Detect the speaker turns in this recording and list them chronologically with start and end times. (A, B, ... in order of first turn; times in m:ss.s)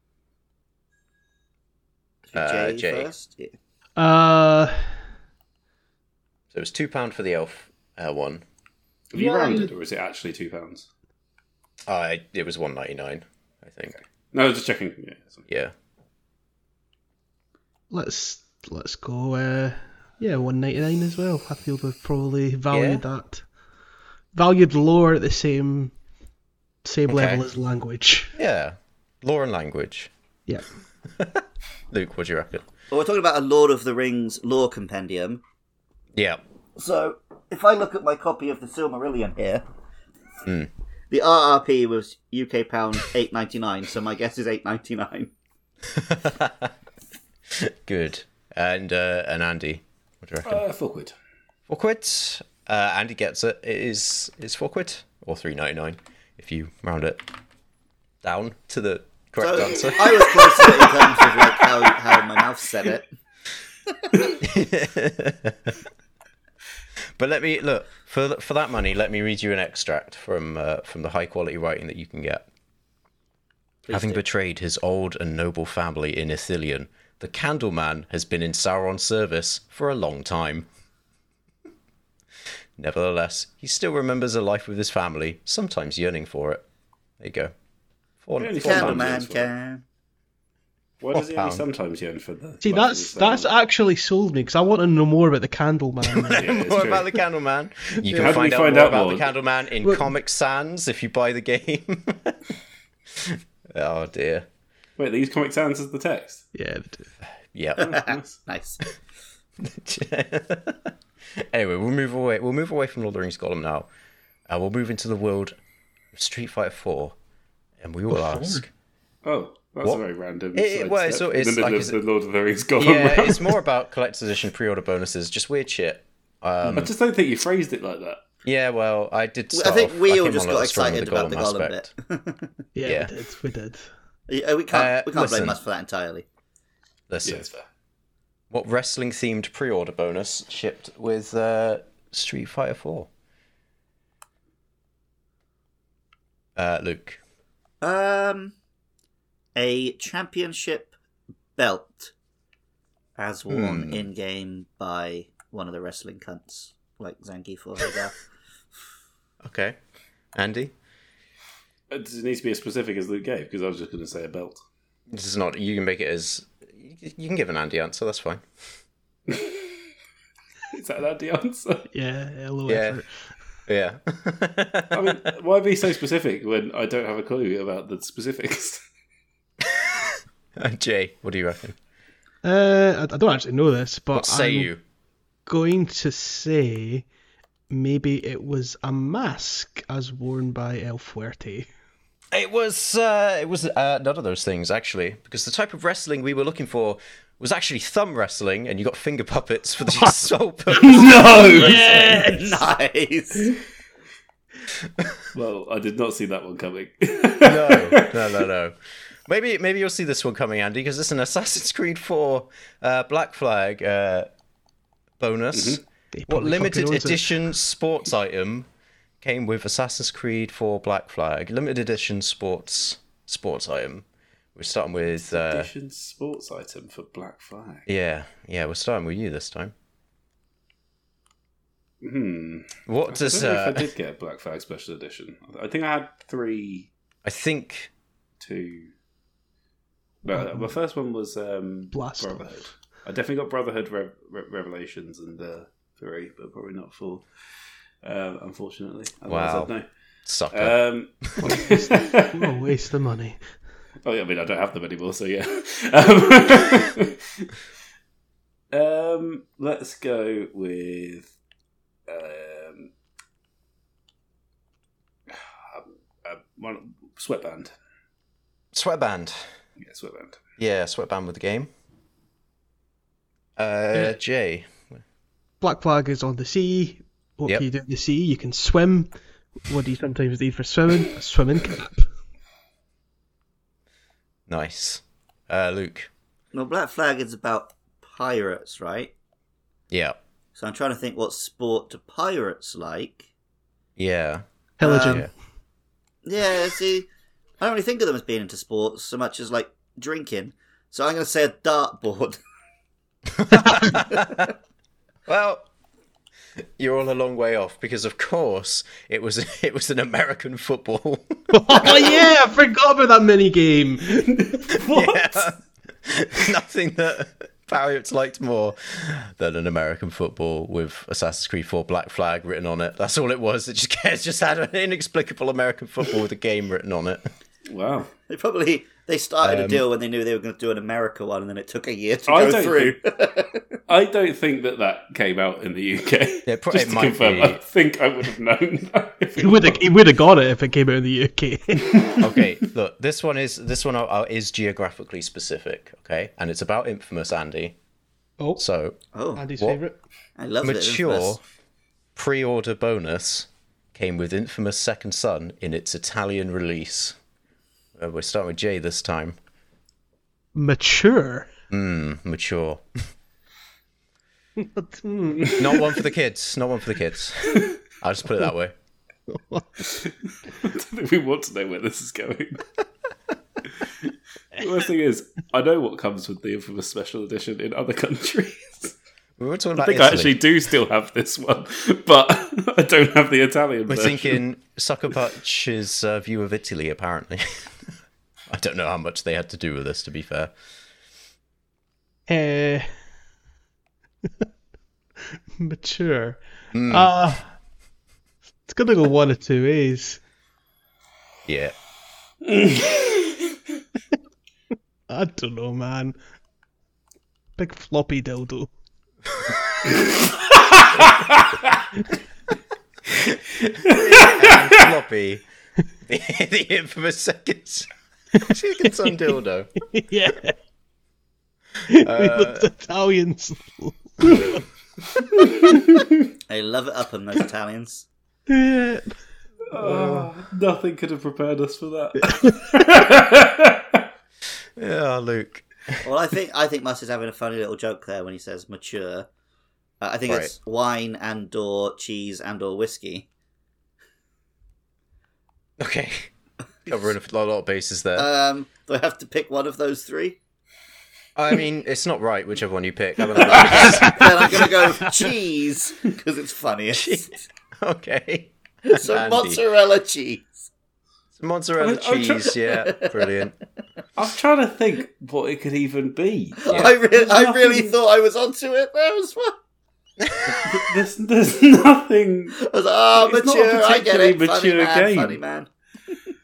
0:02.3-0:03.5 A
0:02.3-0:03.1 B
0:04.0-0:05.0 C
0:06.5-0:08.4 B
0:09.1-0:10.9 D
0:09.2-0:09.7 C
0:11.9-0:14.0 B
0:14.0-0:15.4 D
0:15.5-0:15.7 B
0:17.9-0:23.4 C
0:22.7-0:23.0 B
0:24.3-0:25.9 C
0:26.8-0:28.4 C
0:27.1-0:27.4 B
0:28.4-0:30.1 B
0:31.1-0:32.7 B
0:32.9-0:35.4 A
0:36.2-0:36.4 B
0:36.8-0:39.6 A
0:40.4-0:40.7 B
0:41.1-0:45.3 A
0:45.9-0:46.7 B
0:47.5-0:50.6 B
0:50.4-0:51.2 D
0:51.7-0:57.2 B
0:58.2-1:00.7 B
0:59.4-1:03.1 A
1:03.9-1:04.3 A
1:04.4-1:05.8 B
1:07.2-1:12.5 B
1:13.8-1:14.2 A
1:13.9-1:20.7 B
1:22.8-1:26.6 B
1:27.2-1:27.5 B
1:28.2-1:29.2 B
1:28.4-1:29.5 D
1:28.6-1:29.8 A
1:31.0-1:33.5 D
1:31.1-1:31.6 B
1:32.6-1:36.5 C
1:36.1-1:42.5 B
1:36.4-1:37.2 D
1:38.1-1:38.4 C
1:38.1-1:39.3 D
1:39.8-1:40.1 C
1:43.1-1:44.4 B
1:45.0-1:46.4 D
1:46.6-1:47.1 C
1:47.5-1:47.9 B
1:47.8-1:48.8 A
1:47.8-1:48.4 D
1:49.6-1:53.9 B
1:54.5-1:55.5 B
1:56.1-1:57.2 B
1:57.8-1:58.7 B
1:58.1-1:58.6 C
1:59.2-2:03.6 D
2:00.5-2:02.0 B
2:02.8-2:06.9 B
2:06.7-2:08.2 D
2:08.4-2:11.9 B
2:09.5-2:12.6 A
2:12.8-2:13.9 C
2:12.8-2:13.1 B
2:14.3-2:16.3 A
2:14.7-2:15.6 B
2:17.1-2:17.4 B
2:17.2-2:17.6 D
2:18.5-2:23.1 B
2:26.6-2:27.2 B
2:27.8-2:28.5 A
2:29.6-2:30.9 A
2:31.6-2:32.1 A
2:33.2-2:38.2 A
2:33.5-2:34.1 B
2:39.4-2:39.8 B
2:40.4-2:40.7 B
2:41.9-2:44.6 D
2:45.1-2:48.4 B
2:49.3-2:49.8 D
2:50.7-2:51.9 D
2:51.9-2:53.1 C
2:52.7-2:53.0 B
2:53.7-2:55.2 B
2:54.9-2:58.8 D
2:59.6-3:01.8 B
3:02.4-3:04.7 C
3:04.1-3:04.8 B
3:05.5-3:07.1 C
3:07.7-3:11.7 C
3:12.3-3:22.1 B
3:20.7-3:22.6 C
3:20.9-3:21.8 D
3:21.6-3:23.6 A
3:25.3-3:28.4 D
3:27.4-3:34.3 B
3:35.2-3:38.7 B
3:35.5-3:35.8 D
3:36.1-3:37.4 C
3:39.2-3:45.7 B
3:45.3-3:47.9 D
3:47.9-3:49.7 B
3:52.0-3:56.9 D
3:52.9-3:53.9 B
3:57.2-3:57.9 B
3:58.4-3:58.9 D
4:00.2-4:07.3 D
4:00.3-4:00.7 C
4:01.9-4:02.5 C
4:08.0-4:09.9 D
4:09.3-4:09.7 B
4:10.3-4:11.6 B
4:10.5-4:12.5 D
4:12.3-4:13.4 C
4:14.0-4:17.5 D
4:18.7-4:21.3 D
4:22.1-4:22.9 D
4:25.3-4:27.7 D
4:28.7-4:29.5 B
4:29.8-4:30.4 D
4:30.6-4:31.7 B
4:33.6-4:35.0 B
4:35.6-4:42.1 C
4:44.5-4:46.1 B
4:46.5-4:49.1 A
4:49.9-4:50.2 B
4:50.6-4:53.3 A
4:54.0-4:54.4 B
4:54.8-4:55.3 C
4:54.8-4:55.2 A
4:55.0-4:55.3 B
4:56.2-4:57.1 A
4:57.6-5:02.4 A
5:03.4-5:04.5 B
5:03.6-5:04.5 A
5:05.3-5:05.7 B
5:06.8-5:12.2 B
5:11.5-5:15.5 C
5:14.8-5:27.3 B
5:27.7-5:28.1 D
5:28.3-5:33.6 A
5:29.4-5:29.8 B
5:32.3-5:33.0 D
5:33.9-5:39.8 D
5:36.5-5:37.6 B
5:39.4-5:42.2 C
5:42.2-5:47.8 B
5:48.6-5:49.0 B
5:49.1-5:49.4 A
5:49.4-5:50.0 C
5:49.5-5:49.8 B
5:50.4-5:51.4 A
5:50.6-5:51.4 B
5:52.2-5:57.2 B
5:58.0-5:59.4 B
6:00.6-6:01.5 C
6:01.7-6:03.0 B
6:04.6-6:05.9 C
6:05.6-6:08.8 B
6:09.3-6:09.8 C
6:10.0-6:12.6 D
6:13.8-6:19.0 D
6:19.4-6:20.4 B
6:19.8-6:24.4 D
6:23.9-6:27.9 B
6:28.5-6:30.5 B
6:32.3-6:32.9 C
6:35.6-6:37.5 C
6:36.7-6:37.2 B
6:38.7-6:40.2 C
6:41.5-6:41.7 B
6:42.4-6:43.6 D
6:45.1-6:46.2 C
6:47.6-6:48.7 C
6:49.3-6:50.0 B
6:51.1-6:51.6 D
6:53.1-6:55.4 B
6:53.9-6:54.9 D
6:56.0-6:59.7 B
6:59.8-7:00.6 C
7:01.9-7:04.6 C
7:01.9-7:02.7 B
7:05.4-7:05.8 C
7:06.5-7:08.0 A
7:08.5-7:09.2 C
7:09.7-7:14.0 D
7:09.8-7:10.3 B
7:12.2-7:12.8 C
7:14.8-7:16.0 B
7:16.0-7:19.3 A
7:20.0-7:23.3 A
7:20.3-7:20.5 B
7:25.8-7:26.3 B
7:26.9-7:28.3 B
7:28.2-7:30.4 A
7:31.4-7:34.8 B
7:33.4-7:37.4 A
7:33.5-7:34.1 D
7:36.9-7:39.6 B
7:38.8-7:40.7 A
7:41.4-7:43.6 B
7:41.8-7:42.6 D
7:42.8-7:43.4 A
7:44.2-7:47.9 D
7:46.6-7:49.6 A
7:46.7-7:47.0 B
7:50.2-7:50.8 B
7:50.5-7:52.6 D
7:52.6-7:56.2 A
7:53.2-7:55.4 D